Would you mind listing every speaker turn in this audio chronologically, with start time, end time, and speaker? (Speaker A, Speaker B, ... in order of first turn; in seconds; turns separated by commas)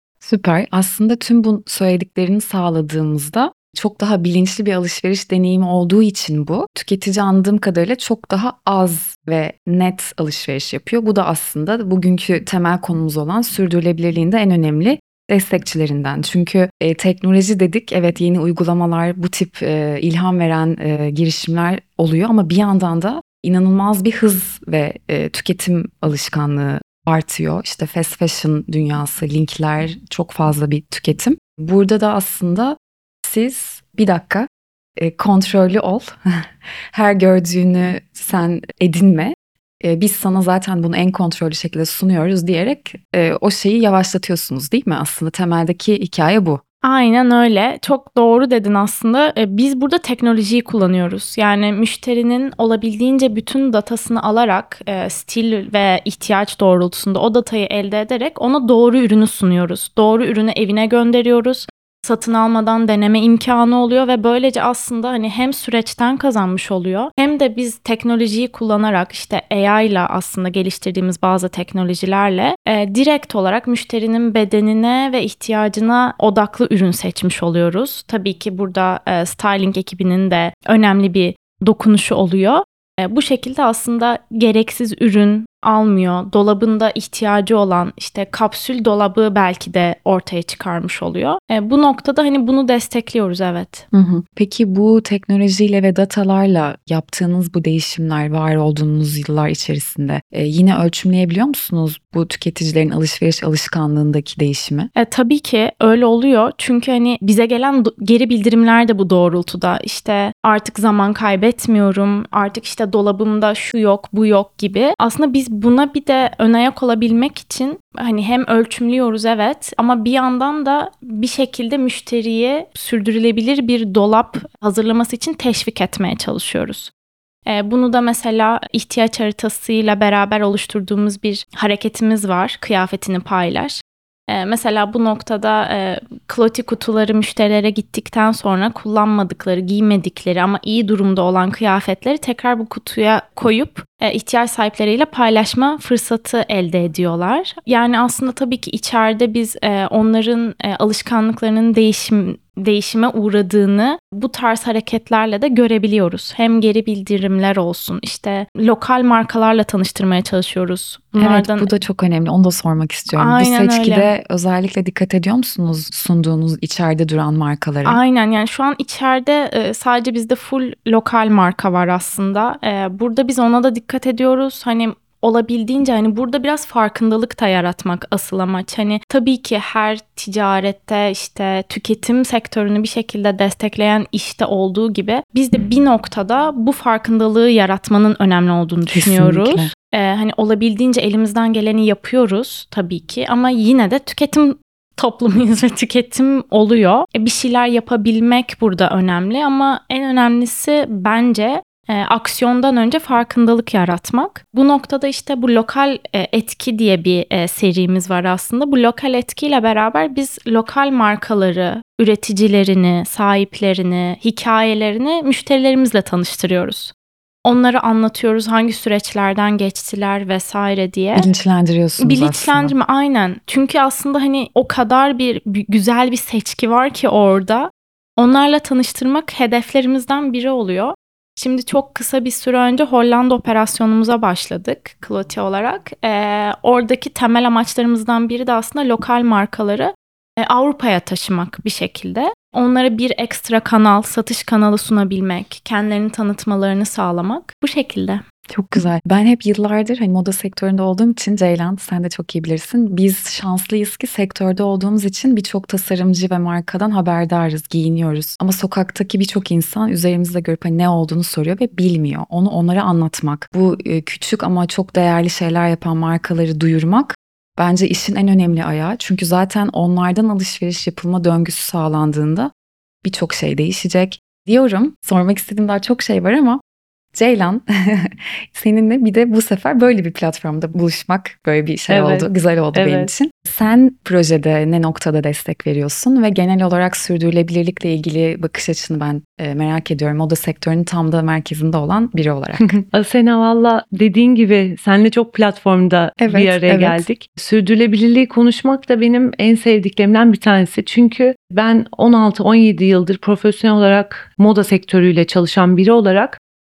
Speaker A: 0.2-46.6, Speaker B: 46.8-93.8, Speaker A: 93.9-104.9, Speaker B: 104.9-126.9, Speaker B: 127.5-161.7, Speaker A: 161.2-168.0, Speaker B: 163.1-164.1, Speaker B: 167.8-216.9, Speaker A: 188.8-189.7, Speaker B: 217.4-221.3, Speaker A: 221.1-222.7, Speaker B: 222.0-248.2, Speaker A: 248.5-272.5, Speaker A: 273.0-276.6, Speaker A: 277.1-292.8, Speaker C: 281.9-283.1, Speaker C: 292.6-306.4, Speaker A: 296.2-297.0